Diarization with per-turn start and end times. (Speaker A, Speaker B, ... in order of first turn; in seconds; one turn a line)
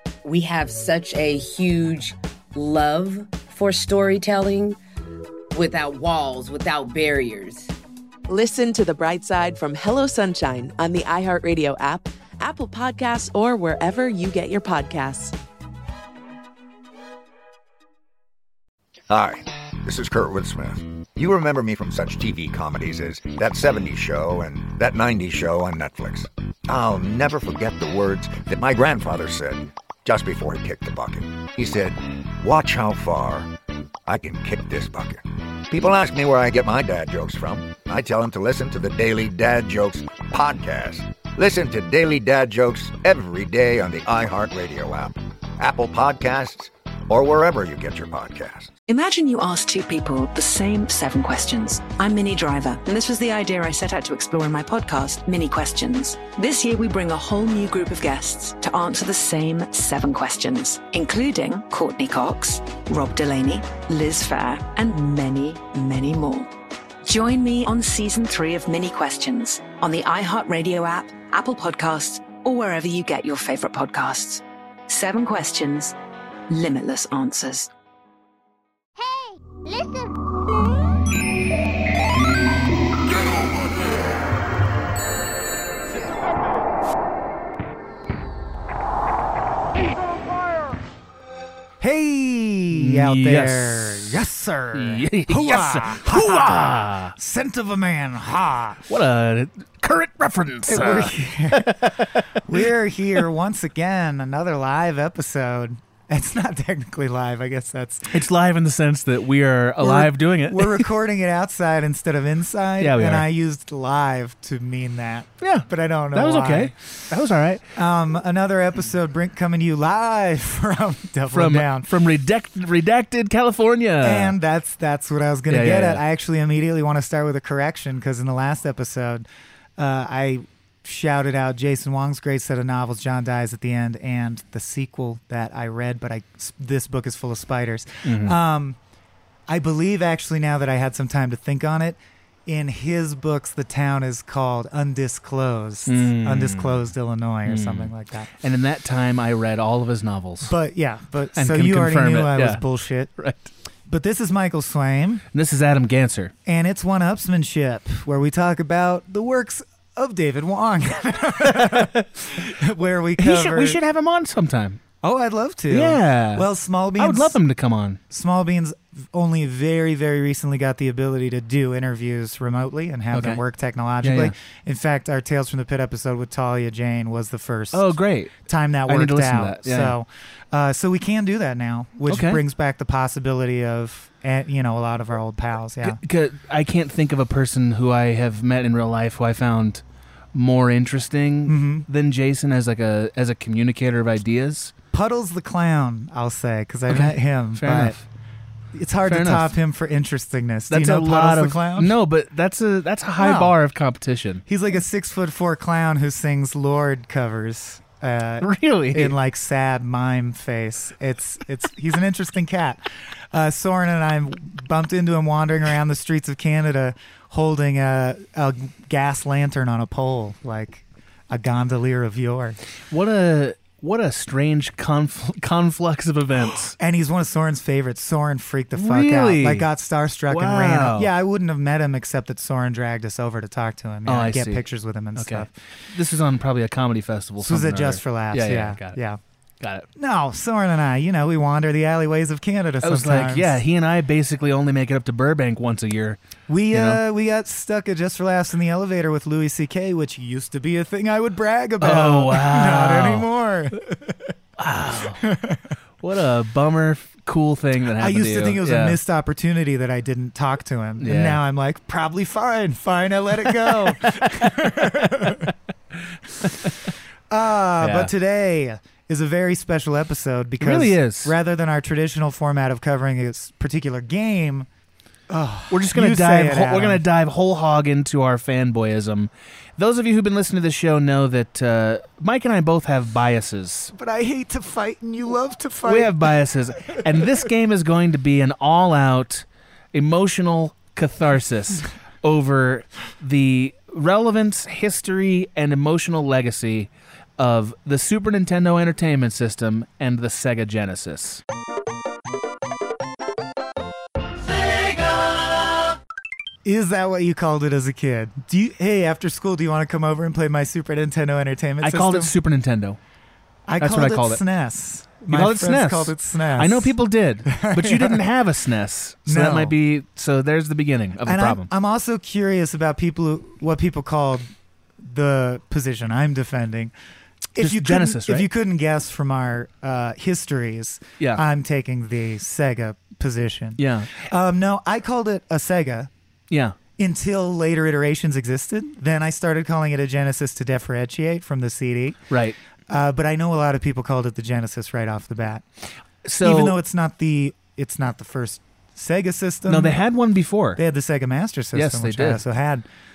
Speaker A: 0.2-4.8
Speaker A: 5.5-7.7
Speaker B: 8.3-15.3
Speaker C: 19.1-33.5
Speaker C: 34.0-48.7
Speaker D: 48.9-66.5
Speaker D: 67.0-76.0
Speaker D: 76.5-77.7
Speaker E: 91.8-98.8
Speaker F: 92.7-94.1
Speaker F: 94.7-97.2
Speaker F: 98.9-102.6
Speaker E: 100.7-101.9
Speaker E: 102.4-108.2
Speaker F: 108.1-110.9
Speaker E: 109.8-116.9
Speaker F: 112.8-113.3
Speaker F: 115.4-117.6
Speaker E: 117.7-121.9
Speaker F: 121.3-124.4
Speaker E: 124.0-138.8
Speaker F: 125.5-126.0
Speaker F: 138.1-138.4
Speaker E: 139.5-148.3
Speaker F: 145.9-146.8
Speaker F: 147.5-150.5
Speaker E: 150.4-153.1
Speaker F: 151.3-152.6
Speaker F: 153.2-153.5
Speaker E: 153.9-155.2
Speaker F: 155.3-156.3
Speaker E: 156.5-163.8
Speaker F: 161.4-162.4
Speaker F: 163.2-164.8
Speaker E: 165.0-167.4
Speaker F: 165.7-166.5
Speaker F: 167.0-168.0
Speaker E: 168.1-186.0
Speaker F: 173.1-173.4
Speaker F: 174.0-174.3
Speaker F: 177.7-178.4
Speaker F: 178.9-179.9
Speaker F: 182.1-182.4
Speaker F: 185.8-189.8
Speaker F: 190.3-194.7
Speaker E: 191.5-191.9
Speaker E: 194.9-198.0
Speaker F: 196.9-198.0
Speaker E: 198.7-201.9
Speaker F: 199.1-199.5
Speaker F: 200.7-204.4
Speaker E: 203.2-203.6
Speaker E: 204.5-222.6
Speaker F: 208.4-209.2
Speaker F: 222.9-226.8
Speaker E: 226.8-235.5
Speaker F: 228.8-229.7
Speaker F: 230.3-231.1
Speaker F: 234.1-239.0
Speaker E: 237.4-239.2
Speaker F: 239.6-239.9
Speaker E: 240.0-243.6
Speaker F: 242.8-246.2
Speaker E: 246.5-254.1
Speaker F: 246.7-247.0
Speaker F: 251.8-253.3
Speaker F: 254.6-255.2
Speaker E: 255.2-255.6
Speaker F: 256.0-259.0
Speaker E: 258.0-265.5
Speaker F: 261.0-261.4
Speaker F: 265.2-265.5
Speaker F: 266.4-266.9
Speaker E: 267.3-274.7
Speaker F: 267.8-268.1
Speaker F: 270.6-271.3
Speaker E: 275.3-277.0
Speaker F: 275.7-283.9
Speaker E: 283.9-286.3
Speaker F: 285.8-301.4
Speaker E: 286.9-287.2
Speaker E: 306.6-312.3
Speaker F: 311.8-313.0
Speaker E: 313.7-316.9
Speaker F: 313.8-314.4
Speaker F: 315.3-321.7
Speaker E: 317.4-318.2
Speaker E: 319.3-319.8
Speaker E: 321.2-326.9
Speaker E: 327.5-336.1
Speaker F: 327.6-328.5
Speaker F: 333.8-334.2
Speaker F: 336.5-336.8
Speaker E: 337.0-342.2
Speaker F: 342.3-342.6
Speaker E: 342.9-345.6
Speaker F: 346.2-346.8
Speaker E: 346.4-350.0
Speaker F: 349.7-350.8
Speaker E: 350.8-352.9
Speaker F: 351.7-352.4